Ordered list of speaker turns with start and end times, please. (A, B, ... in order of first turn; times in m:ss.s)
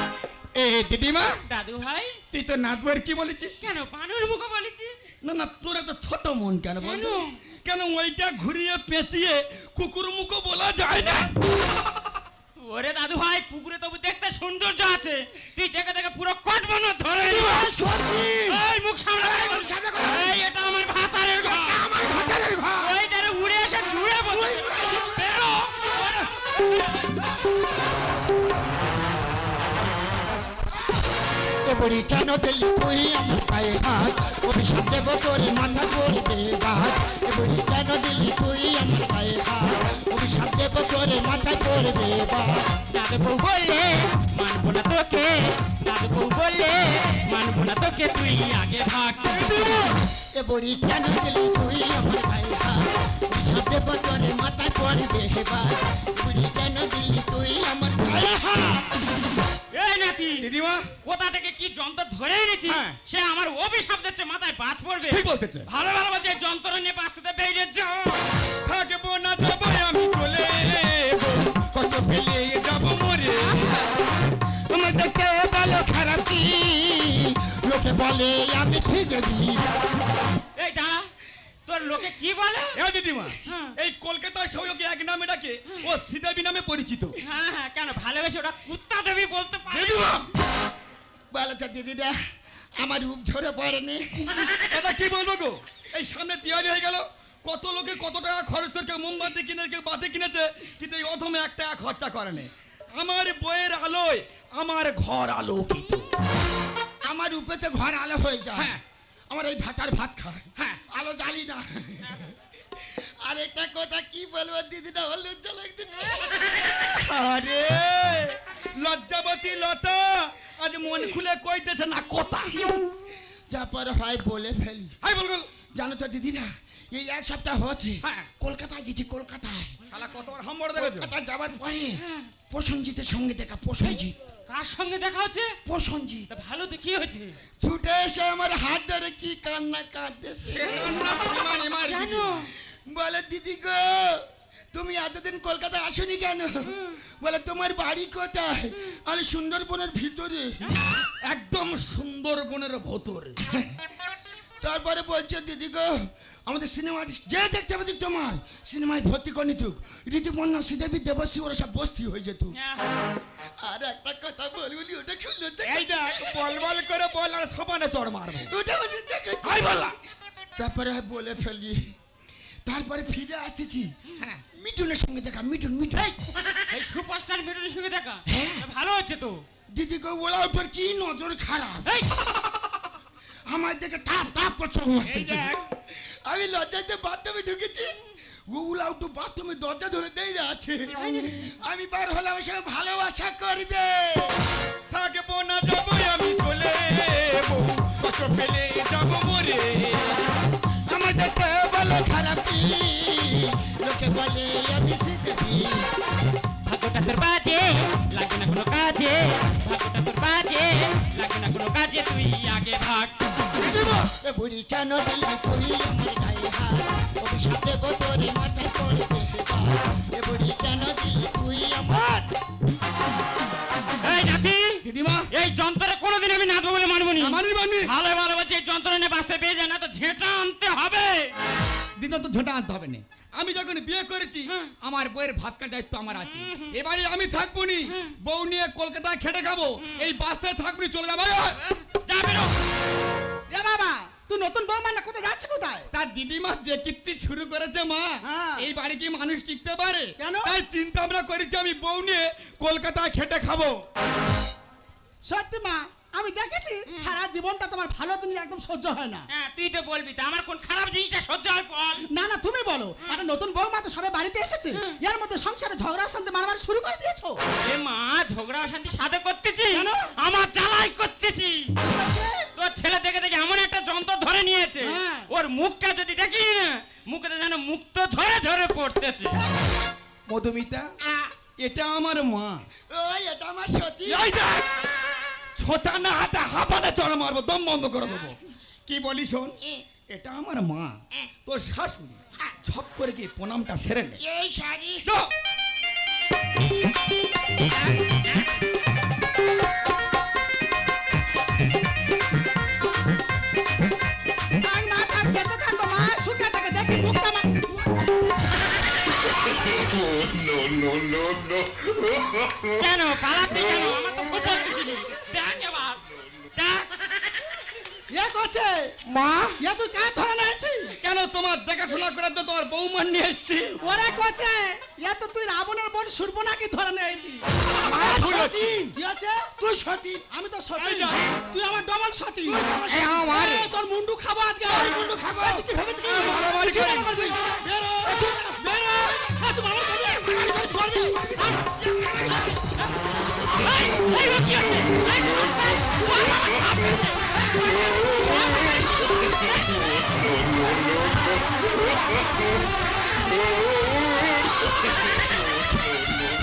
0:00.6-0:01.4 A
0:01.5-0:02.2 B
0:02.3-0:03.7 A
0:03.6-0:04.9 B
0:05.2-0:11.3 A
0:06.8-0:07.4 B
0:12.6-0:17.8 B
0:17.3-0:18.6 C
0:18.5-0:21.8 B
0:19.2-0:20.4 C
0:21.4-0:22.9 C
0:22.8-0:27.2 B
0:24.5-0:25.1 C
0:31.6-0:42.7 C
0:42.9-0:49.5 B
0:50.3-0:58.9 C
0:59.7-1:00.5 B
1:00.4-1:00.9 A
1:01.0-1:08.2 B
1:02.7-1:03.0 A
1:05.1-1:05.7 A
1:08.6-1:13.8 A
1:13.4-1:13.9 B
1:14.7-1:19.7 C
1:20.6-1:21.1 B
1:21.7-1:22.8 B
1:22.8-1:27.2 A
1:23.4-1:23.7 B
1:27.2-1:30.1 B
1:29.7-1:30.3 A
1:31.3-1:32.2 C
1:32.8-1:34.5 C
1:34.7-1:46.1 A
1:47.0-1:48.8 C
1:49.3-1:56.8 C
1:56.8-2:02.8 A
2:03.5-2:05.0 C
2:05.0-2:05.5 A
2:05.8-2:09.8 C
2:08.0-2:08.3 A
2:09.9-2:11.1 A
2:10.8-2:14.2 C
2:12.0-2:12.3 B
2:14.0-2:15.5 B
2:15.6-2:16.3 C
2:16.3-2:17.4 B
2:17.6-2:20.8 C
2:20.5-2:22.4 A
2:21.8-2:22.5 B
2:22.8-2:30.7 C
2:31.3-2:33.4 A
2:33.5-2:33.8 C
2:34.6-2:42.6 C
2:42.5-2:43.0 B
2:43.6-2:46.5 C
2:45.6-2:48.5 A
2:48.4-2:49.9 C
2:49.4-2:50.0 A
2:50.6-2:51.9 C
2:52.7-2:56.1 C
2:56.7-2:59.4 B
2:58.3-2:58.6 C
2:59.7-3:01.9 C
3:01.8-3:02.1 B
3:03.5-3:08.0 C
3:05.1-3:05.6 A
3:08.5-3:14.4 C
3:11.0-3:11.4 B
3:14.9-3:20.3 A
3:20.9-3:25.9 C
3:26.7-3:33.2 B
3:33.6-3:42.3 C
3:44.0-3:51.3 B
3:44.8-3:45.3 A
3:47.2-3:47.9 A
3:52.0-4:01.6 A
3:54.5-3:54.7 B
3:56.1-3:56.8 B
3:57.9-3:58.1 B
3:59.8-4:00.1 B
4:01.7-4:02.5 B
4:03.5-4:05.9 D
4:05.9-4:13.8 A
4:08.2-4:08.7 D
4:10.2-4:10.5 D
4:15.2-4:19.3 D
4:19.3-4:22.1 B
4:22.1-4:27.4 D
4:27.6-4:31.7 B
4:29.7-4:30.1 D
4:31.8-4:32.5 D
4:32.6-4:39.4 B
4:34.8-4:35.3 D
4:40.3-4:40.9 A
4:41.6-4:42.7 A
4:42.9-4:44.3 C
4:44.1-4:44.7 A
4:45.6-4:49.6 A
4:50.1-4:54.2 A
4:54.2-4:55.1 C
4:55.0-4:55.3 A
5:04.5-5:07.7 D
5:12.7-5:16.0 B
5:16.6-5:17.1 B
5:18.1-5:19.0 D
5:19.1-5:19.6 A
5:19.6-5:21.0 D
5:21.0-5:23.8 A
5:23.8-5:27.4 D
5:27.8-5:28.9 A
5:27.9-5:29.5 D
5:28.3-5:28.8 C
5:29.6-5:30.2 C
5:30.3-5:41.6 D
5:30.8-5:31.2 A
5:32.5-5:33.0 C
5:32.9-5:33.7 A
5:34.7-5:35.6 C
5:36.1-5:37.2 A
5:40.1-5:42.4 C
5:43.5-5:49.3 B